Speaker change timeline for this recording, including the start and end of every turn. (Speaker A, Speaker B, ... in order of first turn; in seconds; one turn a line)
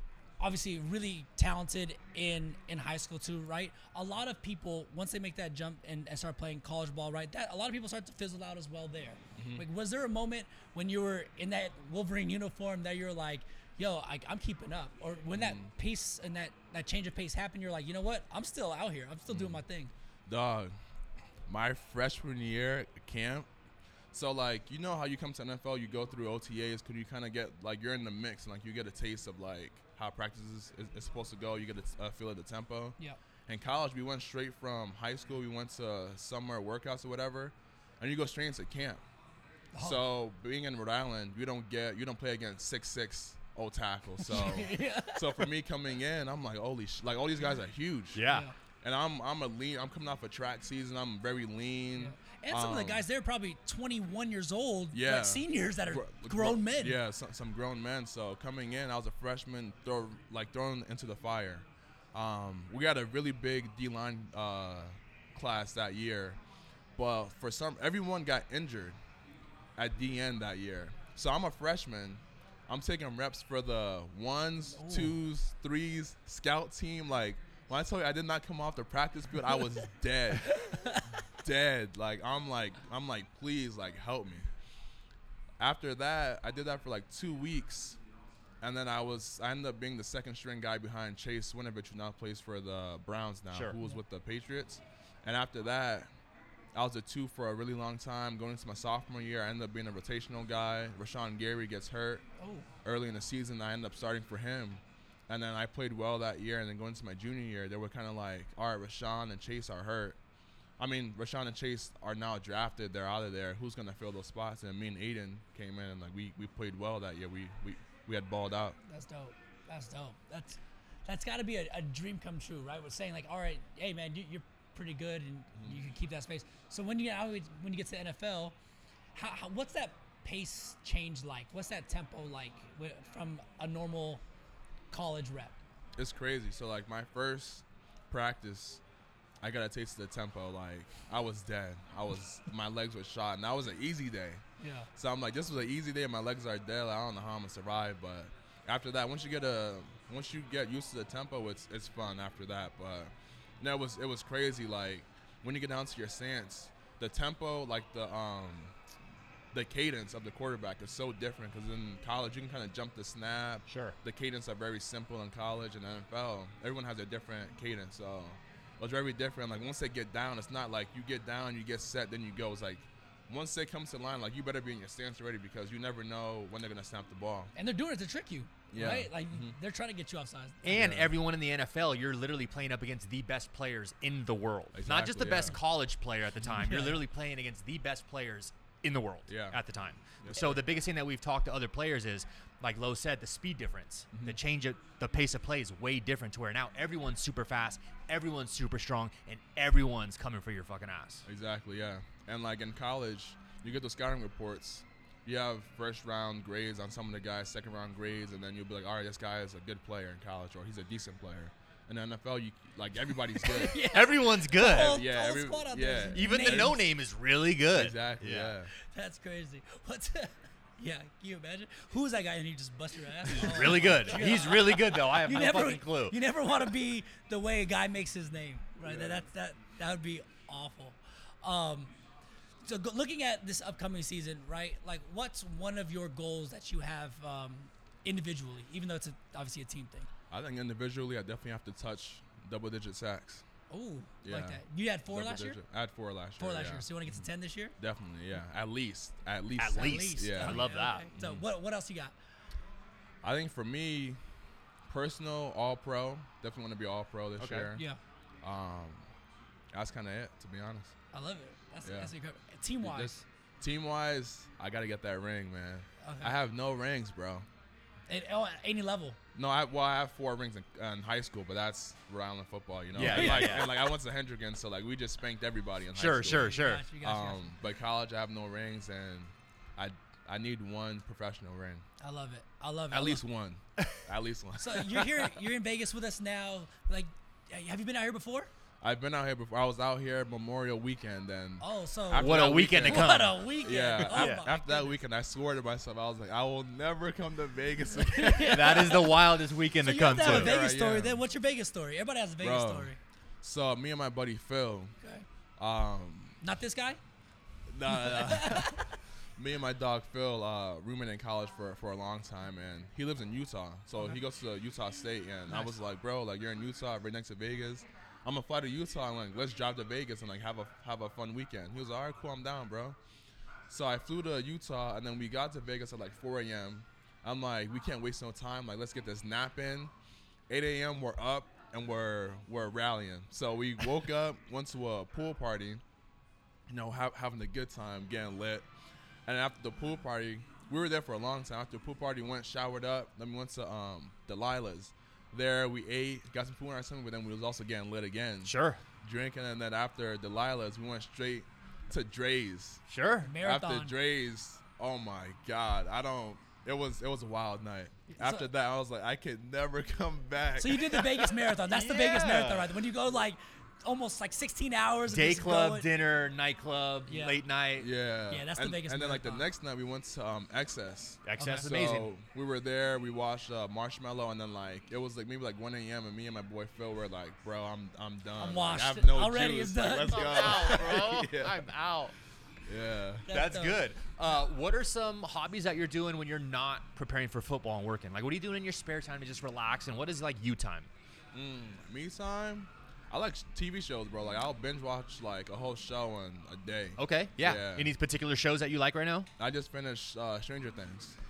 Speaker A: 0.4-19.9
Speaker B: 9.4-9.7
Speaker B: 15.3-15.7
Speaker B: 19.3-19.6
Speaker B: 20.3-20.7
Speaker B: 21.5-23.5
Speaker B: 24.1-33.0
Speaker B: 33.5-39.0
Speaker A: 39.7-40.0
Speaker B: 39.8-48.2
Speaker A: 44.2-45.5
Speaker C: 48.1-48.5
Speaker A: 48.3-48.5
Speaker B: 48.8-53.0
Speaker A: 52.0-57.0
Speaker B: 54.9-66.4
Speaker B: 67.0-69.0
Speaker B: 69.8-80.8
Speaker A: 74.8-75.2
Speaker A: 80.4-81.1
Speaker B: 81.4-84.5
Speaker B: 85.6-88.0
Speaker B: 88.6-96.1
Speaker A: 93.8-94.0
Speaker B: 96.8-102.2
Speaker A: 102.4-102.7
Speaker B: 102.8-110.2
Speaker B: 110.8-118.8
Speaker A: 118.9-128.6
Speaker B: 125.5-125.8
Speaker A: 129.2-134.2
Speaker A: 134.9-135.6
Speaker B: 136.0-138.8
Speaker B: 139.4-144.4
Speaker A: 144.6-144.9
Speaker B: 145.0-158.7
Speaker B: 159.5-177.5
Speaker C: 163.7-164.0
Speaker A: 177.6-180.8
Speaker B: 178.7-179.6
Speaker C: 180.6-201.3
Speaker B: 180.7-181.1
Speaker B: 184.7-185.6
Speaker B: 186.4-186.7
Speaker A: 186.6-187.0
Speaker B: 189.3-189.6
Speaker B: 190.2-190.6
Speaker B: 194.1-194.4
Speaker B: 201.3-213.8
Speaker A: 213.4-216.9
Speaker C: 213.7-215.1
Speaker B: 214.7-216.8
Speaker C: 216.1-218.6
Speaker B: 217.7-218.7
Speaker A: 218.8-231.9
Speaker C: 223.3-226.2
Speaker B: 228.8-229.2
Speaker A: 232.6-240.1
Speaker B: 240.3-243.4
Speaker A: 243.7-245.6
Speaker B: 244.2-247.2
Speaker A: 246.4-247.8
Speaker B: 247.8-251.4
Speaker C: 249.6-251.1
Speaker A: 249.8-252.1
Speaker B: 253.2-254.2
Speaker B: 254.9-257.9
Speaker C: 257.4-257.7
Speaker A: 257.7-258.0
Speaker B: 258.4-259.1
Speaker B: 259.7-260.9
Speaker A: 261.1-263.1
Speaker B: 261.8-262.1
Speaker B: 262.8-267.5
Speaker A: 266.0-266.4
Speaker A: 268.1-269.2
Speaker B: 269.4-281.9
Speaker C: 272.9-273.9
Speaker A: 273.0-273.7
Speaker C: 275.9-276.9
Speaker A: 276.4-277.5
Speaker A: 282.0-283.2
Speaker B: 282.9-285.3
Speaker A: 284.6-288.5
Speaker B: 288.8-298.9
Speaker A: 291.6-295.0
Speaker C: 292.1-294.4
Speaker A: 298.1-303.0
Speaker C: 298.4-300.6
Speaker B: 300.2-301.2
Speaker B: 302.4-304.9
Speaker A: 305.0-305.3
Speaker B: 305.6-306.4
Speaker A: 306.4-307.0
Speaker B: 307.7-323.0
Speaker A: 307.9-308.9
Speaker A: 315.5-315.7
Speaker B: 323.7-329.9
Speaker B: 330.5-335.8
Speaker B: 336.7-338.7
Speaker B: 339.3-352.8
Speaker C: 348.4-348.8
Speaker C: 352.9-353.3
Speaker A: 353.2-353.9
Speaker B: 353.4-362.8
Speaker A: 358.1-358.5
Speaker A: 360.6-365.9
Speaker C: 365.1-367.9
Speaker A: 367.1-367.4
Speaker B: 367.8-381.6
Speaker A: 368.3-369.5
Speaker C: 371.3-372.1
Speaker A: 371.4-371.7
Speaker A: 378.4-380.9
Speaker C: 380.1-382.1
Speaker B: 382.7-383.3
Speaker A: 383.3-383.8
Speaker C: 383.3-390.9
Speaker B: 391.3-397.9
Speaker C: 397.0-399.3
Speaker B: 399.4-401.2